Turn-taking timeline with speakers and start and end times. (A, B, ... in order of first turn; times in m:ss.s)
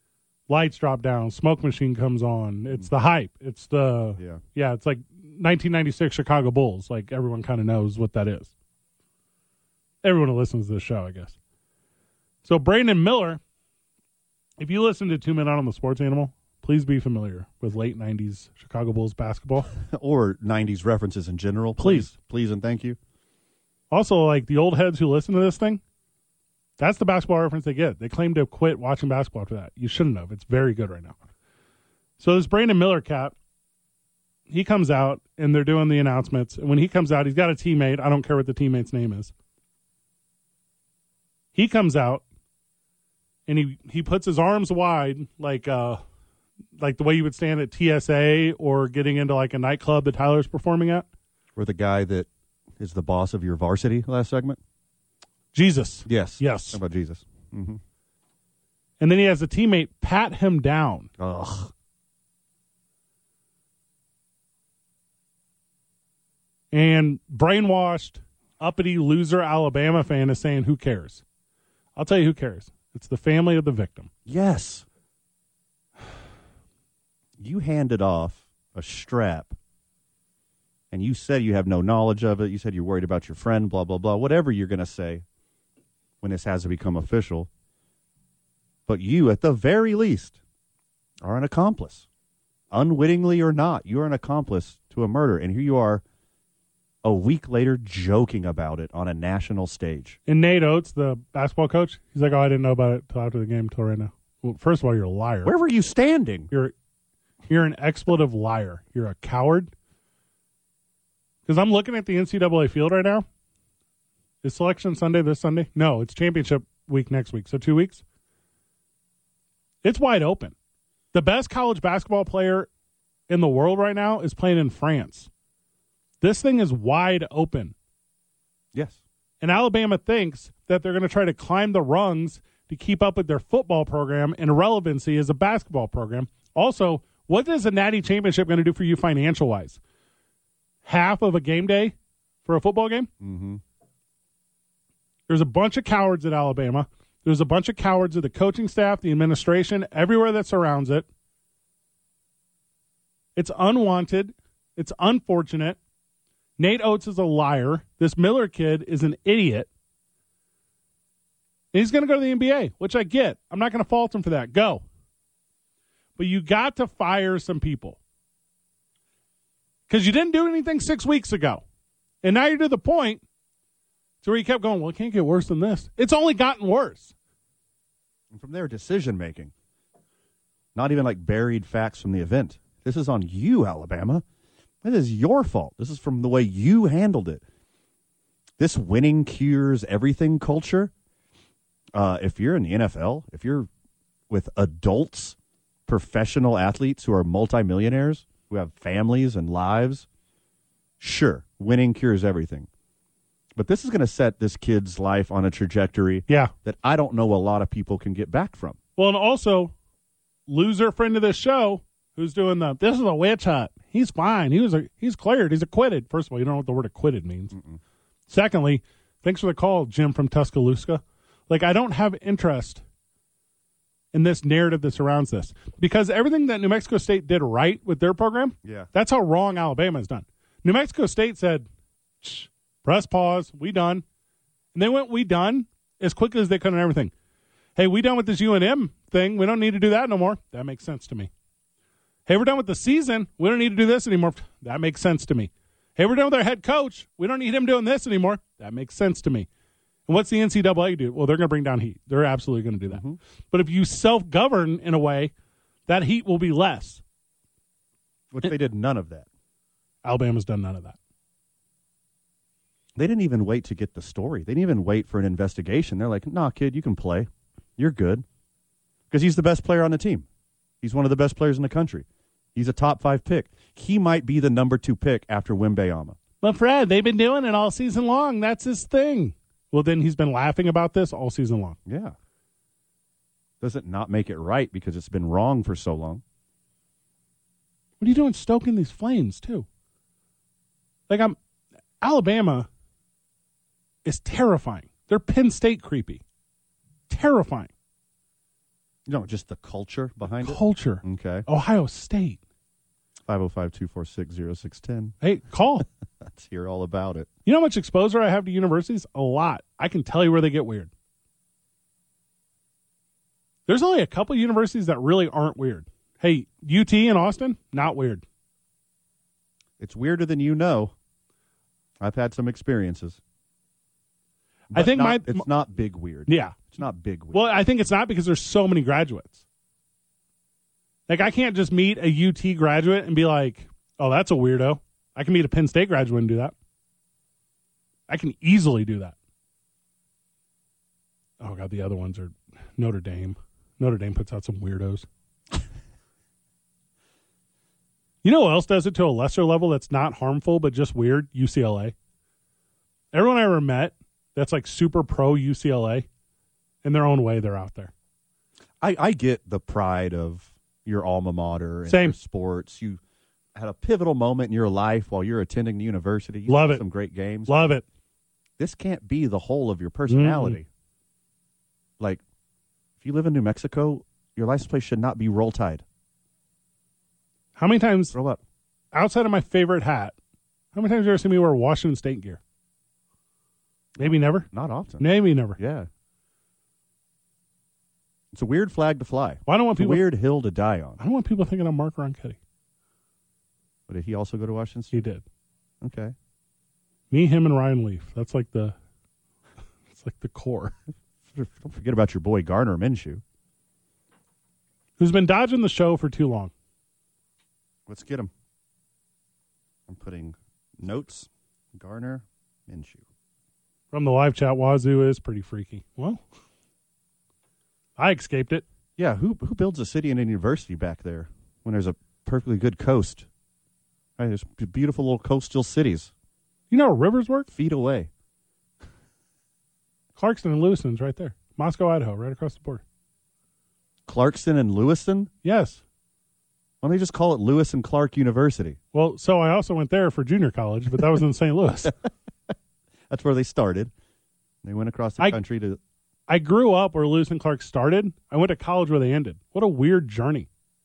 0:00.5-0:08.5 A
0:10.0-0:11.3 A
0:12.4-0:13.4 A
0:14.6-0:19.7 A
0:19.8-0:23.0 B
0:21.8-0:22.1 A
0:23.9-0:25.8 A
0:26.8-0:31.2 A
0:32.2-0:33.3 A
0:34.5-0:39.3 A
0:41.5-0:42.2 A
0:43.5-0:46.0 A
0:46.8-0:51.0 A
0:51.6-0:52.3 B
0:52.8-0:54.6 B
0:55.5-0:56.8 A
0:56.0-0:57.8 B
0:59.0-1:01.1 A
1:01.2-1:01.7 B
1:06.7-1:11.2 A
1:12.0-1:14.1 A
1:14.2-1:14.8 B
1:17.4-1:19.5 B
1:20.9-1:25.2 B
1:26.2-1:27.5 B
1:28.9-1:30.4 B
1:31.2-1:32.1 B
1:32.7-1:36.0 B
1:37.0-1:40.2 B
1:40.3-1:45.5 A
1:45.4-1:46.5 B
1:47.5-1:49.7 A
1:51.4-1:53.2 A
1:54.4-1:58.0 A
1:59.8-2:00.5 A
2:01.1-2:02.7 A
2:03.3-2:05.3 A
2:06.2-2:07.7 A
2:08.7-2:09.0 B
2:09.4-2:19.8 A
2:20.8-2:23.1 A
2:23.2-2:23.6 B
2:25.3-2:31.1 A
2:33.4-2:35.8 A
2:36.6-2:39.7 A
2:41.7-2:44.8 A
2:46.2-2:48.0 A
2:49.9-2:51.6 A
2:52.2-2:53.2 A
2:54.2-2:57.1 A
2:58.3-2:59.5 B
3:00.7-3:04.2 B
3:04.8-3:07.4 B
3:08.6-3:10.9 B
3:11.9-3:13.7 B
3:14.3-3:15.4 B
3:15.9-3:20.1 B
3:21.0-3:22.7 B
3:23.5-3:28.8 B
3:26.3-3:26.5 A
3:29.0-3:29.7 A
3:30.5-3:37.5 A
3:37.5-3:37.8 B
3:38.3-3:42.8 A
3:44.1-3:51.7 A
3:48.6-3:48.9 B
3:52.2-3:54.0 A
3:54.7-3:57.1 A
3:57.8-4:01.3 A
4:02.3-4:09.5 A
4:10.1-4:15.3 A
4:12.9-4:13.2 B
4:15.9-4:17.0 A
4:18.3-4:19.3 B
4:20.0-4:21.0 A
4:23.0-4:28.2 B
4:29.1-4:30.2 B
4:30.8-4:36.2 B
4:36.4-4:41.8 A
4:41.8-4:42.2 B
4:43.6-4:46.2 B
4:48.0-4:49.6 A
4:51.1-4:51.4 A
4:52.0-4:52.7 A
4:54.0-4:56.2 A
4:57.1-4:57.7 A
4:59.1-5:01.4 B
5:00.4-5:02.4 A
5:03.3-5:05.1 B
5:05.2-5:05.8 A
5:06.2-5:07.3 B
5:07.4-5:10.9 A
5:13.7-5:18.2 A
5:19.8-5:20.9 B
5:22.0-5:23.2 B
5:24.7-5:27.5 B
5:24.7-5:25.4 A
5:26.3-5:26.6 A
5:27.3-5:29.4 A
5:31.1-5:36.5 A
5:38.1-5:39.1 A
5:41.4-5:45.1 A
5:48.2-5:51.9 A
5:53.1-5:56.0 A
5:56.8-5:57.9 A
5:58.8-6:03.0 B
6:01.9-6:02.2 A
6:03.5-6:07.7 B
6:06.5-6:06.8 A
6:07.5-6:07.8 A
6:08.6-6:10.7 B
6:10.1-6:10.6 A
6:13.0-6:15.8 B
6:17.6-6:18.1 A
6:18.1-6:18.4 B
6:18.9-6:20.1 A
6:20.7-6:22.4 A
6:24.0-6:25.6 A
6:24.0-6:25.9 B
6:28.3-6:31.0 B
6:29.5-6:30.0 A
6:31.0-6:32.4 A
6:33.9-6:35.0 B
6:34.9-6:35.2 A
6:35.8-6:36.1 B
6:37.1-6:38.7 A
6:39.9-6:40.7 A
6:41.3-6:43.2 B
6:45.0-6:46.5 A
6:47.9-6:48.3 B
6:49.9-6:53.0 B
6:53.9-6:56.2 A
6:58.0-6:58.6 A
6:59.0-7:03.3 B
7:04.2-7:06.1 B
7:06.7-7:07.5 A
7:07.5-7:08.1 B
7:10.2-7:12.8 A
7:14.1-7:15.3 B
7:15.4-7:15.8 A
7:16.8-7:18.8 B
7:18.9-7:21.9 A
7:23.1-7:23.9 B
7:24.6-7:25.8 B
7:26.3-7:30.5 A